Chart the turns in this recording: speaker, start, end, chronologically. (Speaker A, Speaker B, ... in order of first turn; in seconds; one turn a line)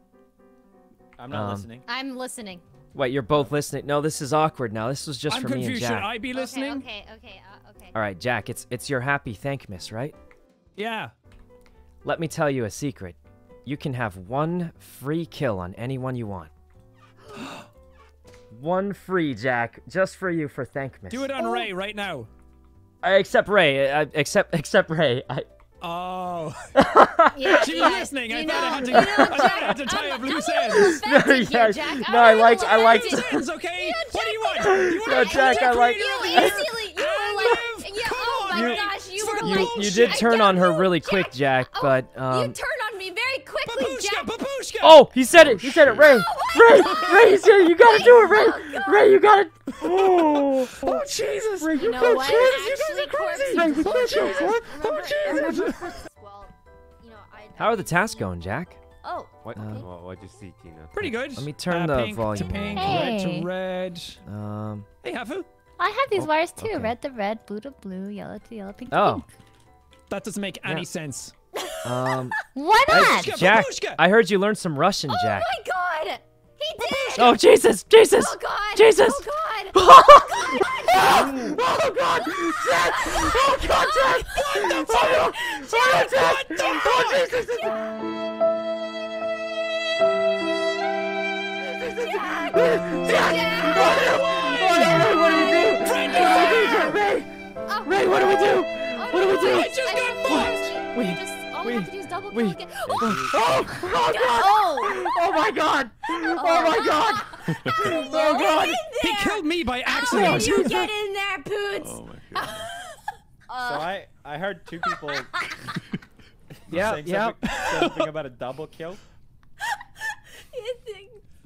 Speaker A: 1.2-1.9
Speaker B: 1.3-1.7
Speaker C: 1.9-2.6
Speaker B: 2.9-6.1
Speaker D: 5.3-6.9
Speaker C: 6.3-8.0
Speaker B: 7.9-10.2
Speaker D: 10.8-11.1
Speaker B: 12.0-16.5
Speaker B: 18.5-21.3
Speaker D: 21.1-22.3
Speaker B: 23.0-25.5
Speaker D: 25.8-26.6
Speaker B: 26.8-27.8
Speaker C: 27.4-44.3
Speaker D: 27.4-30.9
Speaker E: 27.5-28.6
Speaker B: 28.8-29.8
Speaker B: 30.7-33.5
Speaker D: 32.7-40.2
Speaker B: 34.6-36.7
Speaker B: 38.5-38.9
Speaker B: 39.4-42.6
Speaker D: 43.6-46.1
Speaker B: 44.8-51.0
Speaker C: 46.0-46.9
Speaker D: 46.8-47.3
Speaker C: 47.8-49.1
Speaker D: 49.8-55.9
Speaker B: 51.6-51.9
Speaker C: 51.8-58.3
Speaker B: 53.5-54.5
Speaker B: 57.6-58.8
Speaker C: 59.0-59.9
Speaker B: 59.5-59.9
Speaker F: 59.5-61.2
Speaker D: 60.9-64.2
Speaker B: 61.3-63.1
Speaker E: 62.7-63.5
Speaker B: 64.3-64.9
Speaker D: 65.0-65.5
Speaker E: 65.8-69.3
Speaker B: 66.1-66.9
Speaker F: 66.6-66.9
Speaker B: 68.9-69.3
Speaker D: 70.1-71.3
Speaker B: 71.8-75.5
Speaker E: 72.5-73.3
Speaker D: 72.9-74.0
Speaker C: 75.1-77.4
Speaker B: 77.2-87.7
Speaker C: 78.2-81.3
Speaker A: 81.0-81.6
Speaker C: 82.2-85.8
Speaker D: 84.3-87.3
Speaker B: 91.8-97.3
Speaker C: 91.9-96.7
Speaker D: 94.5-97.0
Speaker C: 97.7-103.2
Speaker B: 97.8-108.8
Speaker D: 99.3-100.7
Speaker F: 102.9-103.7
Speaker C: 103.9-105.1
Speaker C: 106.1-112.9
Speaker D: 109.0-110.9
Speaker B: 110.1-110.6
Speaker F: 111.7-112.7
Speaker C: 113.5-114.0
Speaker A: 113.6-115.3
Speaker C: 115.1-115.8
Speaker B: 116.7-117.4
Speaker A: 116.7-119.0
Speaker D: 117.5-118.1
Speaker C: 120.5-121.2